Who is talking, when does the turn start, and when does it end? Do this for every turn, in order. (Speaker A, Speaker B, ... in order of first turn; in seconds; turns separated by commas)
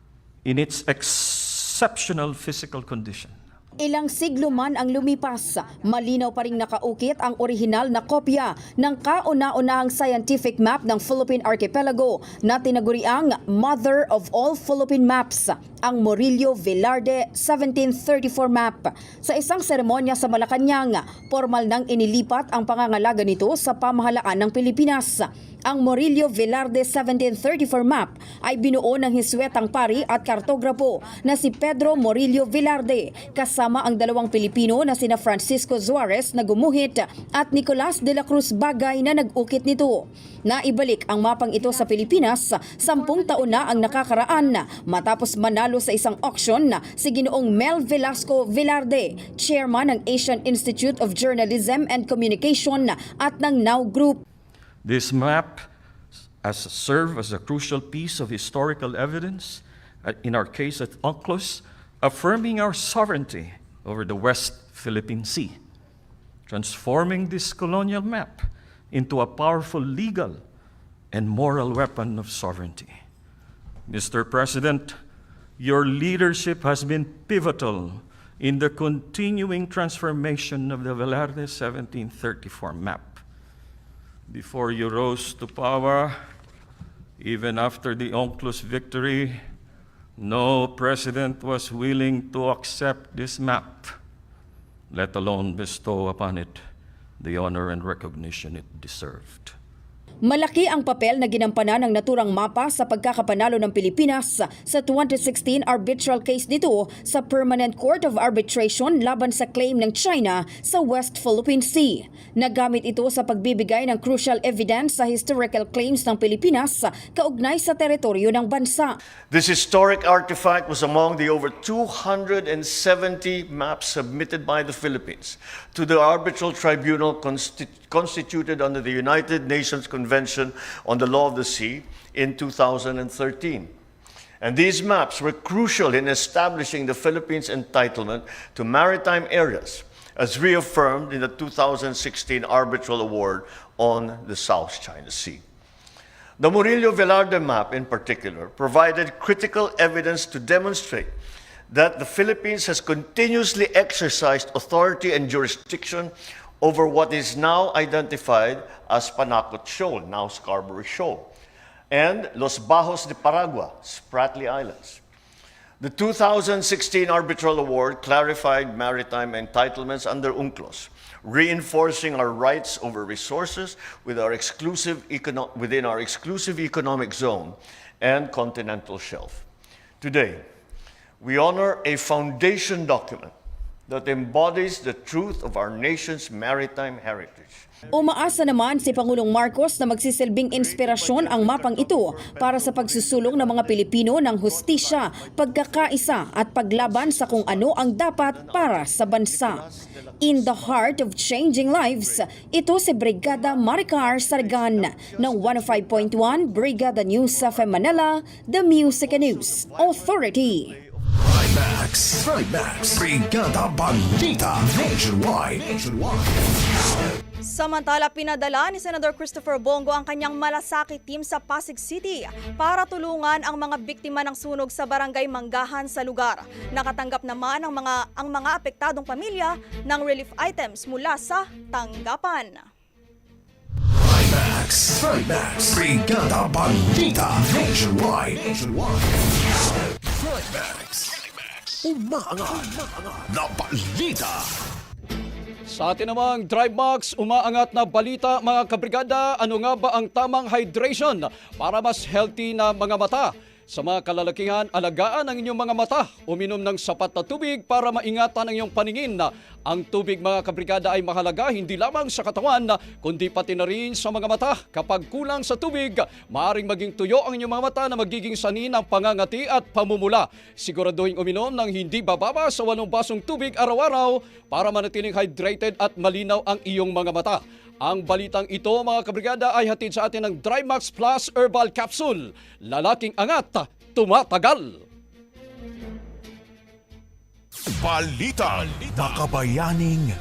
Speaker A: 0.5-3.4, Speaker B: 3.8-54.2, Speaker A: 54.8-55.6, Speaker A: 56.4-65.6, Speaker A: 66.5-70.4, Speaker A: 71.1-72.9, Speaker A: 73.9-74.9, Speaker A: 75.6-83.2, Speaker A: 84.3-86.1, Speaker A: 87.2-89.4, Speaker A: 90.2-93.9, Speaker A: 94.9-96.6, Speaker A: 97.2-99.5, Speaker B: 100.2-119.0, Speaker C: 119.3-133.7, Speaker C: 134.4-145.4, Speaker C: 146.4-151.1, Speaker C: 151.7-161.3, Speaker C: 161.9-165.0, Speaker C: 165.8-179.5, Speaker C: 180.0-180.4, Speaker C: 181.2-183.3, Speaker C: 183.9-189.6, Speaker B: 187.9-199.6, Speaker C: 190.5-201.1, Speaker B: 200.2-210.8, Speaker C: 201.9-202.4, Speaker C: 203.2-208.1, Speaker C: 208.7-211.0, Speaker D: 211.3-216.3, Speaker E: 217.5-232.7, Speaker D: 234.0-239.1, Speaker D: 240.2-241.2, Speaker D: 241.8-244.4, Speaker F: 245.7-284.8, Speaker D: 289.0-290.0